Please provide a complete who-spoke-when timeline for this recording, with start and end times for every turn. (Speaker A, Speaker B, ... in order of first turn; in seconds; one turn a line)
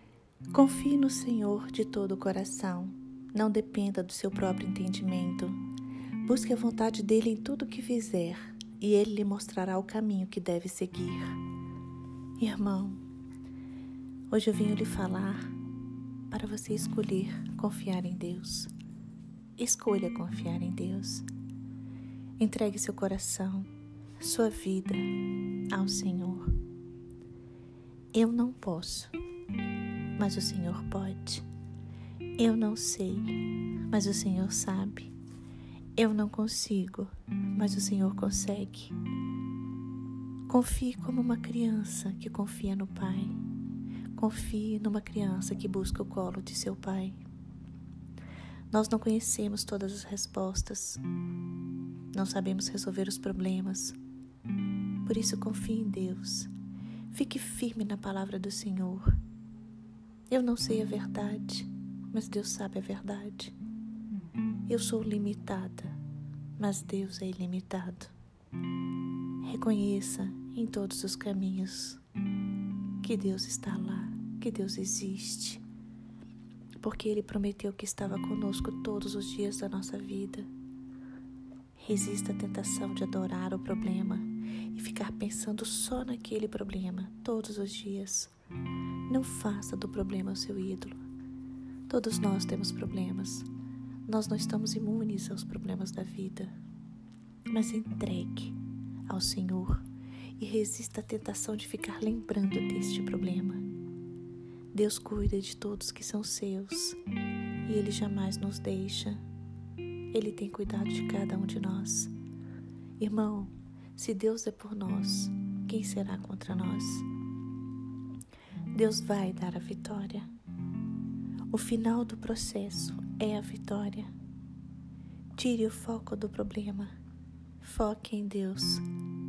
Speaker A: 0.5-5.6
Speaker A: 6.2-11.4
Speaker A: 12.4-13.0
Speaker A: 14.3-15.5
Speaker A: 16.3-18.7
Speaker A: 19.6-21.3
Speaker A: 22.4-25.1
Speaker A: 25.7-26.5
Speaker A: 28.1-29.1
Speaker A: 30.2-31.5
Speaker A: 32.4-35.1
Speaker A: 36.0-39.0
Speaker A: 40.5-43.4
Speaker A: 44.1-47.2
Speaker A: 48.7-51.0
Speaker A: 52.1-54.0
Speaker A: 55.0-56.5
Speaker A: 57.1-59.2
Speaker A: 60.3-63.5
Speaker A: 64.7-66.0
Speaker A: 66.6-68.1
Speaker A: 69.4-72.0
Speaker A: 73.0-75.6
Speaker A: 76.8-80.5
Speaker A: 81.8-88.3
Speaker A: 89.1-91.0
Speaker A: 91.9-93.5
Speaker A: 94.1-96.5
Speaker A: 97.5-99.8
Speaker A: 100.4-103.6
Speaker A: 104.7-107.0
Speaker A: 107.7-109.2
Speaker A: 110.1-112.1
Speaker A: 113.0-117.1
Speaker A: 118.7-120.3
Speaker A: 121.5-124.1
Speaker A: 125.4-126.9
Speaker A: 127.6-128.8